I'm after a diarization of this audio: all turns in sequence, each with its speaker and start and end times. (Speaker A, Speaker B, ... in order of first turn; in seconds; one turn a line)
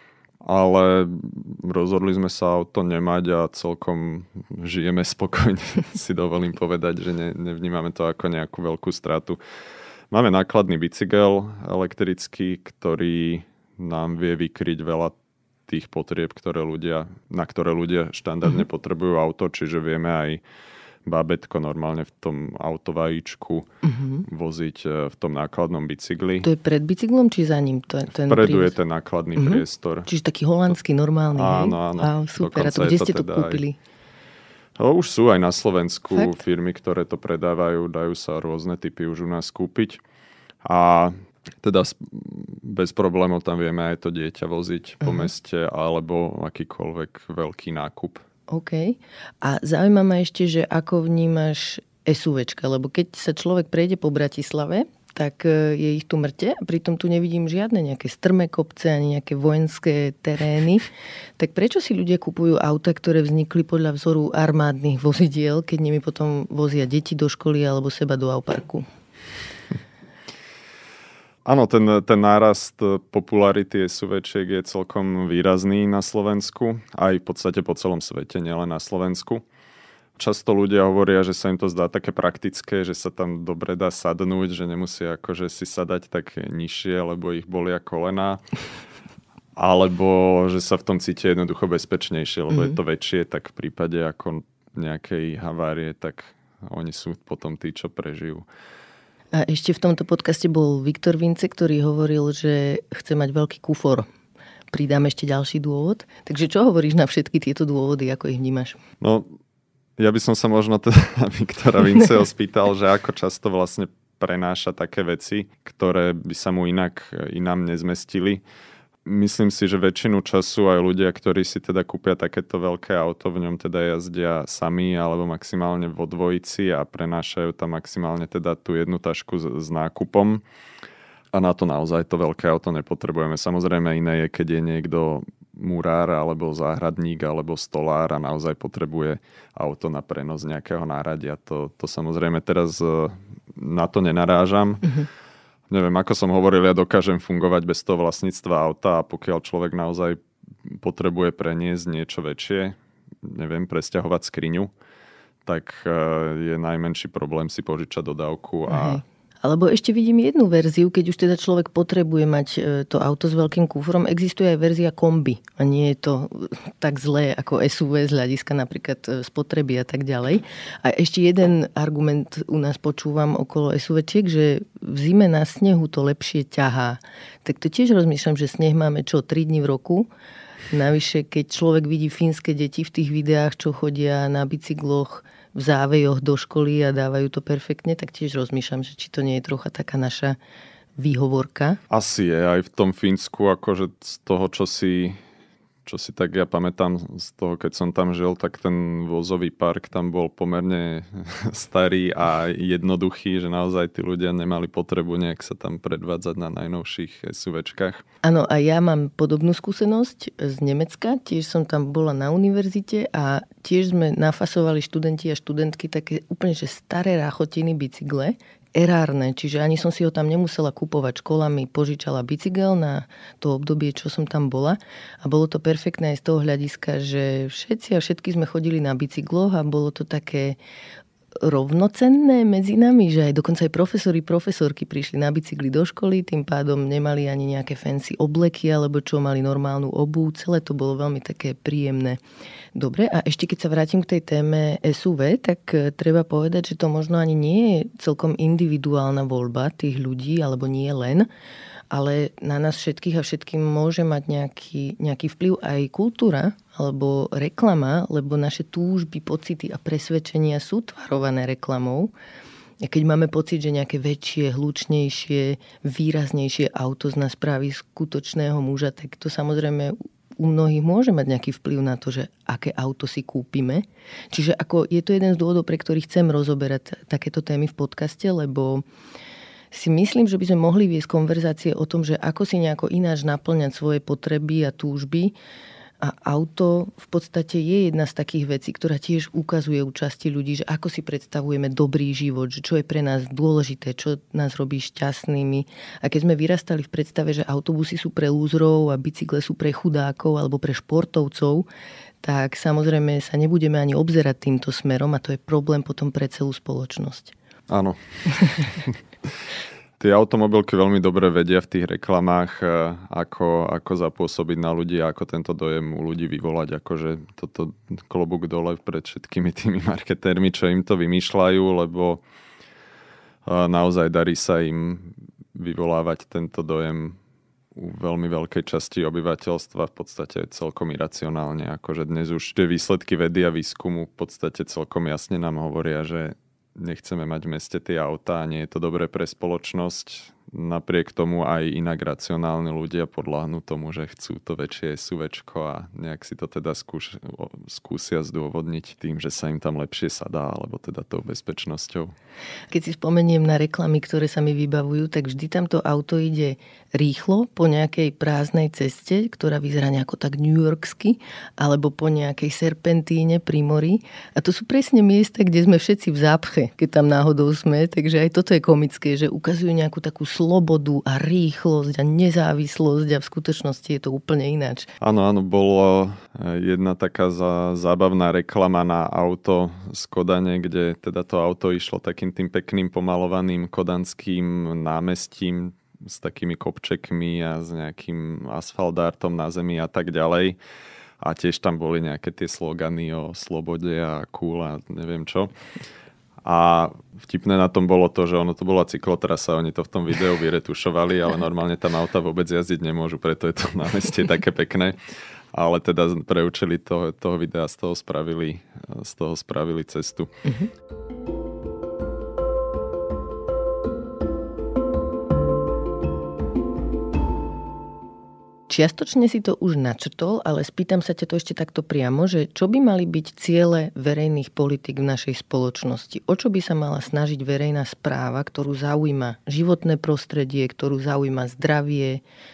Speaker A: 0.4-9.4
Speaker A: 10.1-15.2
Speaker A: 15.7-20.4
Speaker A: 21.1-23.7
Speaker B: 23.8-24.2
Speaker A: 24.2-26.5
Speaker B: 26.4-28.8
Speaker A: 28.2-30.1
Speaker B: 29.4-33.8
Speaker A: 31.3-33.6
Speaker A: 34.8-40.0
Speaker A: 40.6-48.2
Speaker B: 48.5-68.9
Speaker A: 71.5-79.4
Speaker A: 80.2-88.4
Speaker A: 89.6-98.5
Speaker B: 99.3-104.1
Speaker B: 104.7-108.8
Speaker A: 109.0-109.3
Speaker A: 110.0-118.4
Speaker A: 119.0-130.4
Speaker A: 131.3-145.0
Speaker A: 145.7-154.7
Speaker A: 155.5-159.0
Speaker B: 158.7-180.1
Speaker B: 180.7-190.4
Speaker B: 191.0-191.8
Speaker A: 191.9-195.2
Speaker A: 195.8-208.0
Speaker B: 208.2-230.6
Speaker B: 231.4-242.2
Speaker B: 242.8-251.3
Speaker B: 251.9-262.1
Speaker B: 262.8-278.8
Speaker B: 279.7-285.4
Speaker B: 286.0-301.7
Speaker B: 302.2-307.3
Speaker A: 307.7-309.0
Speaker A: 310.0-322.2
Speaker A: 323.5-327.2
Speaker A: 327.8-352.1
Speaker B: 352.7-374.9
Speaker A: 375.0-390.6
Speaker A: 391.2-395.5
Speaker A: 396.4-405.0
Speaker A: 405.5-410.3
Speaker B: 418.7-432.2